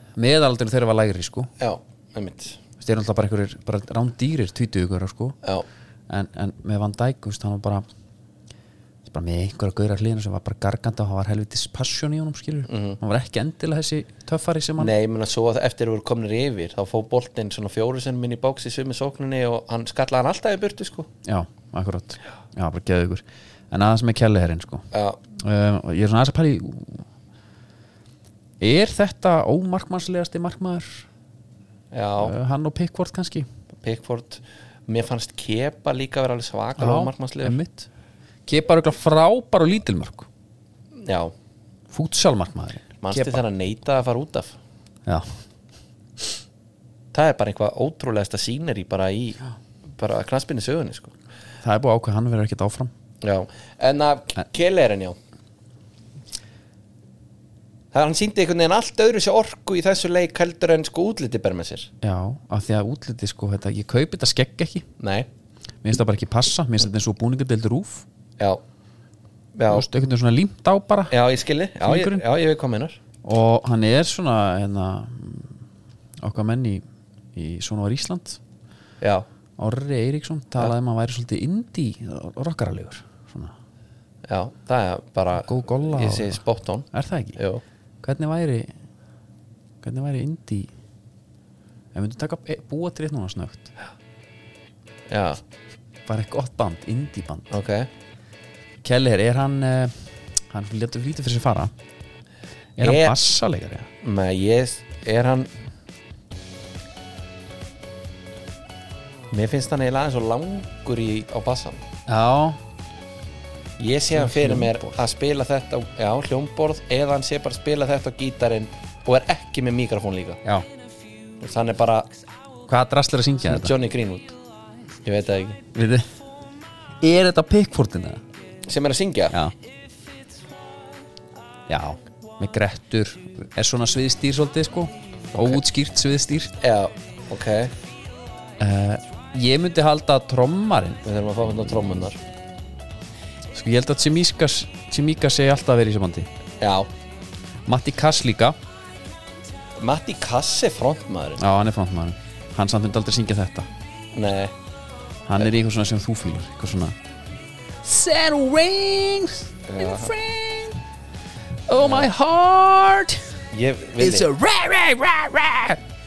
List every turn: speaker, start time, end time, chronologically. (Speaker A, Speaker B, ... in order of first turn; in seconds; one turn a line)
Speaker A: 0.2-1.5
Speaker B: 1.6-2.6
Speaker A: 2.8-5.4
Speaker A: 6.1-7.8
Speaker A: 9.1-14.9
Speaker B: 12.7-13.0
Speaker B: 14.8-21.1
Speaker A: 21.2-24.8
Speaker B: 24.9-25.2
Speaker A: 25.3-27.1
Speaker A: 28.6-31.1
Speaker B: 31.9-32.4
Speaker A: 32.2-33.5
Speaker B: 33.8-37.6
Speaker A: 36.8-37.9
Speaker A: 38.5-40.3
Speaker B: 41.0-41.3
Speaker A: 41.9-43.4
Speaker B: 43.0-44.6
Speaker B: 47.1-49.4
Speaker B: 50.0-51.1
Speaker A: 51.6-52.9
Speaker B: 53.2-55.2
Speaker B: 57.9-61.9
Speaker A: 62.0-64.9
Speaker B: 65.0-65.3
Speaker A: 65.8-68.0
Speaker B: 69.5-69.9
Speaker A: 69.7-71.1
Speaker B: 71.1-73.0
Speaker A: 71.8-72.2
Speaker A: 73.2-75.5
Speaker A: 76.2-76.8
Speaker A: 77.3-78.4
Speaker B: 79.0-79.3
Speaker A: 79.6-83.5
Speaker B: 84.3-87.6
Speaker A: 85.4-86.4
Speaker A: 86.9-87.4
Speaker A: 88.0-88.7
Speaker A: 89.8-90.7
Speaker A: 91.9-93.7
Speaker B: 95.1-95.4
Speaker A: 96.0-97.5
Speaker B: 97.5-97.9
Speaker A: 98.8-101.7
Speaker A: 102.8-103.9
Speaker B: 102.8-103.2
Speaker B: 104.0-105.5
Speaker B: 109.3-111.8
Speaker A: 112.1-112.6
Speaker B: 113.8-120.4
Speaker A: 114.1-114.9
Speaker B: 121.4-122.1
Speaker A: 122.7-123.7
Speaker B: 123.5-124.4
Speaker B: 125.0-125.6
Speaker A: 125.7-126.0
Speaker A: 127.0-128.2
Speaker B: 128.7-129.4
Speaker A: 131.7-136.6
Speaker B: 135.3-135.6
Speaker B: 136.6-137.7
Speaker A: 138.6-141.0
Speaker B: 141.0-142.2
Speaker A: 143.5-146.3
Speaker B: 146.6-146.9
Speaker A: 147.7-148.6
Speaker B: 149.8-151.4
Speaker A: 151.4-153.7
Speaker B: 154.1-154.5
Speaker A: 155.3-156.9
Speaker A: 157.8-160.8
Speaker B: 159.7-160.1
Speaker A: 161.7-163.3
Speaker B: 161.8-162.1
Speaker B: 163.5-164.3
Speaker A: 164.0-165.8